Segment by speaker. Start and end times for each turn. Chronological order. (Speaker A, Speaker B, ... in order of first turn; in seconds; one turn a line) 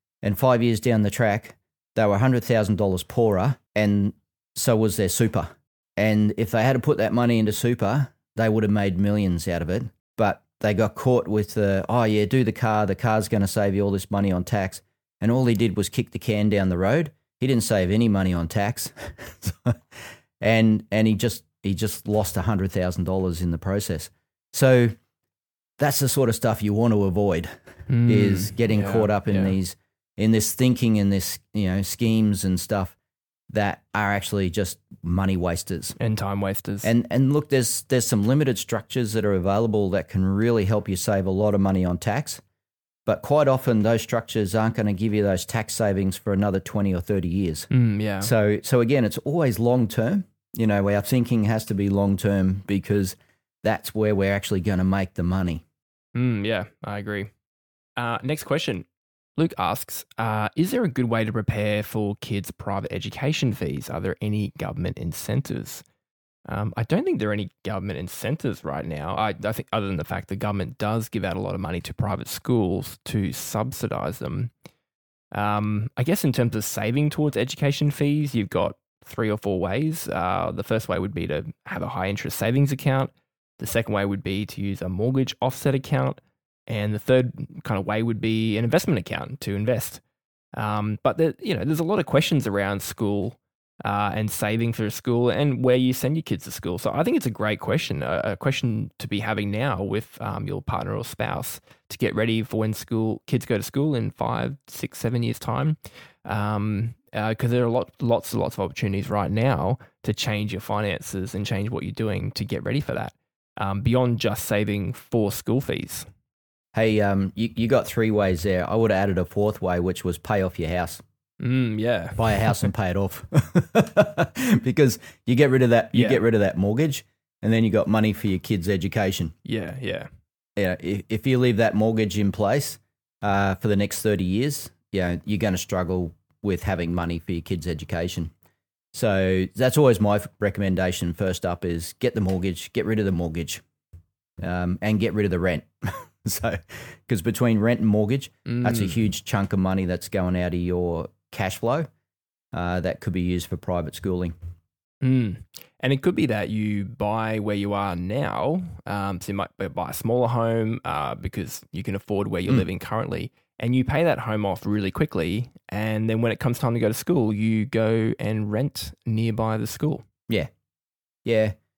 Speaker A: 0.2-24.9
Speaker A: 25.8-33.0
Speaker B: 27.9-29.6
Speaker A: 33.5-36.0
Speaker B: 36.0-36.9
Speaker A: 36.8-42.4
Speaker A: 43.0-47.7
Speaker B: 47.7-48.3
Speaker A: 48.2-55.6
Speaker B: 56.1-57.3
Speaker B: 58.0-58.9
Speaker B: 59.4-65.8
Speaker B: 66.5-74.5
Speaker B: 75.3-90.0
Speaker B: 90.5-116.1
Speaker A: 116.7-121.0
Speaker B: 121.4-122.7
Speaker A: 122.2-129.3
Speaker B: 125.9-126.2
Speaker B: 129.4-130.1
Speaker A: 130.6-138.3
Speaker A: 138.9-143.6
Speaker A: 144.4-151.9
Speaker B: 148.4-149.0
Speaker A: 152.5-154.3
Speaker B: 155.0-170.0
Speaker A: 171.2-171.6